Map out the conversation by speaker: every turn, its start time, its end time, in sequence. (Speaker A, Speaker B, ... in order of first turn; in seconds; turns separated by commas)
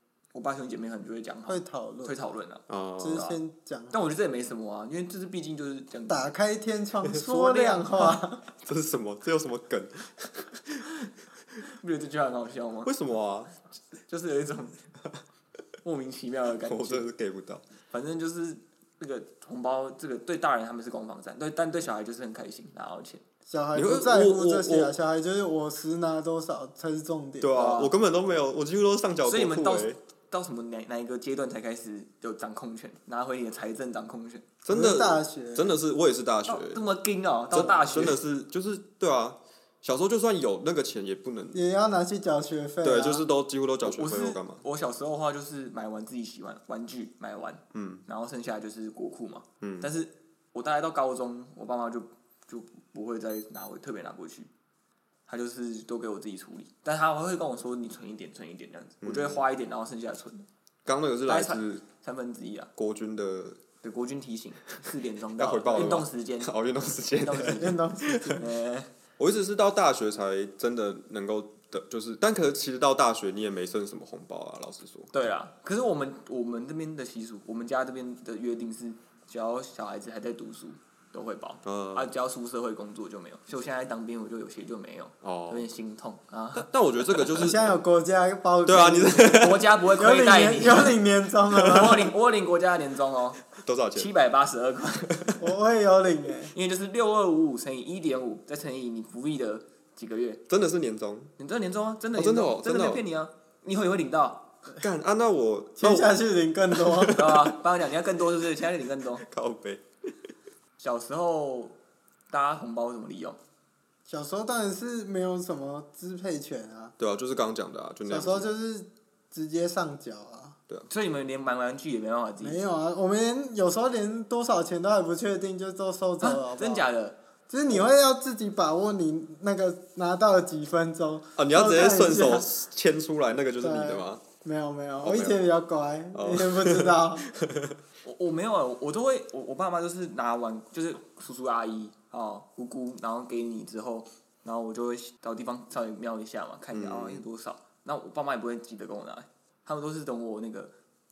Speaker A: 0.3-3.4, Speaker B: 1.5-2.1, Speaker C: 2.7-3.2, Speaker B: 3.0-4.0, Speaker A: 3.9-6.2, Speaker B: 6.1-8.4, Speaker A: 7.2-8.2, Speaker C: 8.6-10.9, Speaker A: 11.6-12.9, Speaker C: 12.8-13.5, Speaker A: 14.1-14.8, Speaker A: 15.8-17.1, Speaker C: 16.6-17.6, Speaker A: 17.9-23.2, Speaker B: 23.5-27.8, Speaker C: 23.7-24.9, Speaker C: 27.4-30.0, Speaker A: 27.5-27.9, Speaker A: 29.2-34.5, Speaker C: 34.6-36.8, Speaker B: 34.7-35.7, Speaker A: 36.5-38.2, Speaker C: 37.5-41.6, Speaker B: 41.5-43.2, Speaker C: 42.8-44.6, Speaker A: 43.8-54.5, Speaker C: 47.7-48.0, Speaker C: 49.6-49.9, Speaker A: 55.3-60.5, Speaker C: 59.0-59.5, Speaker C: 60.9-61.8, Speaker A: 61.3-62.7, Speaker C: 62.8-63.6, Speaker A: 63.8-66.5, Speaker C: 65.4-68.4, Speaker A: 67.2-67.8, Speaker B: 67.5-68.5, Speaker A: 68.3-68.9, Speaker C: 69.2-75.1, Speaker A: 75.1-87.4, Speaker C: 81.6-82.1, Speaker C: 85.2-85.7, Speaker C: 86.5-87.7, Speaker B: 87.4-92.1, Speaker C: 88.7-89.7, Speaker A: 89.3-91.0, Speaker A: 91.5-93.4, Speaker C: 91.5-91.9, Speaker C: 93.5-94.1, Speaker A: 93.9-95.2, Speaker B: 95.4-96.5, Speaker A: 96.5-100.4, Speaker C: 100.5-101.3, Speaker A: 101.4-104.5, Speaker C: 102.1-103.0, Speaker C: 104.8-106.2, Speaker B: 105.8-107.2, Speaker C: 106.7-107.6, Speaker A: 107.1-109.2, Speaker C: 109.2-109.8, Speaker A: 110.8-111.8, Speaker A: 112.3-113.4, Speaker B: 114.0-116.9, Speaker C: 117.0-118.5, Speaker B: 118.1-120.5, Speaker A: 120.9-122.6, Speaker B: 122.4-126.9, Speaker A: 126.2-127.2, Speaker B: 127.5-132.5, Speaker C: 131.4-134.2, Speaker B: 133.6-137.3, Speaker C: 135.0-135.4, Speaker C: 136.1-137.8, Speaker A: 138.0-150.7, Speaker C: 146.7-147.2